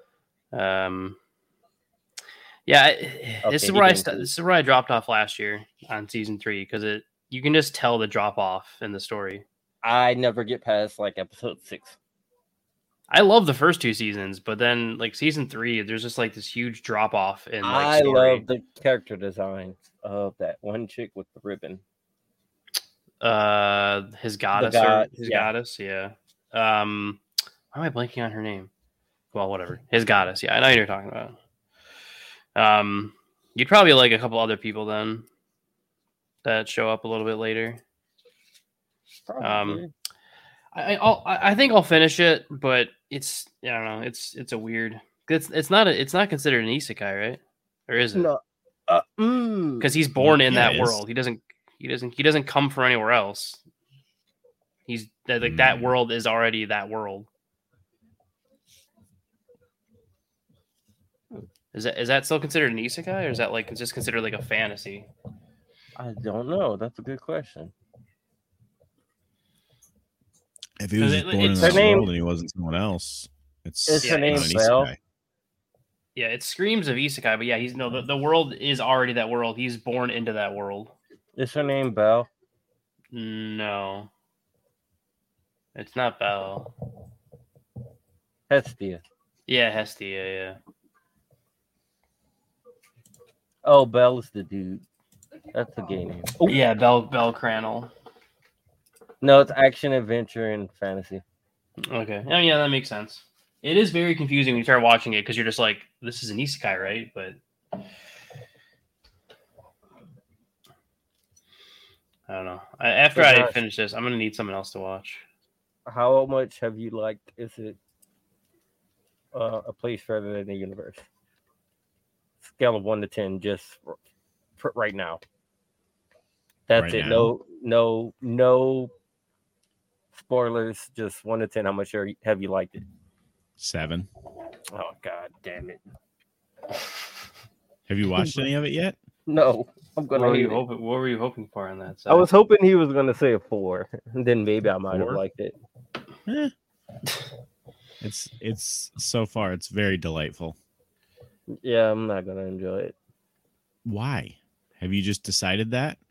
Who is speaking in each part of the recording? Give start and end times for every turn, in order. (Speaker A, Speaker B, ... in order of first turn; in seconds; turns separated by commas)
Speaker A: 0.5-1.2, Speaker A: 2.7-9.4, Speaker B: 3.4-4.3, Speaker B: 9.8-12.0, Speaker A: 13.1-18.4, Speaker B: 17.6-21.8, Speaker A: 23.2-28.7, Speaker B: 24.5-25.5, Speaker A: 29.3-31.4, Speaker A: 32.5-35.2, Speaker A: 36.4-37.8, Speaker B: 39.3-39.9, Speaker A: 39.4-39.8, Speaker A: 40.7-48.3, Speaker B: 48.1-49.9, Speaker A: 49.8-53.6, Speaker C: 50.2-51.0, Speaker A: 54.9-57.3, Speaker C: 55.4-55.9, Speaker A: 61.7-65.1, Speaker B: 66.0-67.7, Speaker C: 70.8-75.0, Speaker A: 71.0-72.1, Speaker B: 71.6-72.1, Speaker B: 73.8-74.9, Speaker A: 74.0-74.5, Speaker A: 76.2-81.0, Speaker B: 81.3-82.3, Speaker A: 83.1-84.1, Speaker A: 85.7-86.7, Speaker B: 88.5-89.0, Speaker A: 89.5-90.6, Speaker B: 93.6-94.8, Speaker B: 95.5-96.6, Speaker A: 96.5-97.9, Speaker B: 99.2-101.2, Speaker A: 101.8-107.4, Speaker A: 112.3-115.2, Speaker B: 113.1-113.6, Speaker B: 115.8-117.8, Speaker B: 119.3-121.0, Speaker B: 122.4-124.0, Speaker B: 124.6-125.2, Speaker B: 126.7-128.9, Speaker C: 126.7-127.3, Speaker B: 130.1-132.8, Speaker C: 133.6-134.1, Speaker B: 134.7-135.8, Speaker C: 137.9-138.9, Speaker B: 139.3-140.6, Speaker A: 140.1-142.3, Speaker B: 142.1-145.6, Speaker C: 144.9-145.2, Speaker C: 146.3-146.5, Speaker C: 148.0-150.6, Speaker B: 151.5-152.9, Speaker C: 153.8-156.0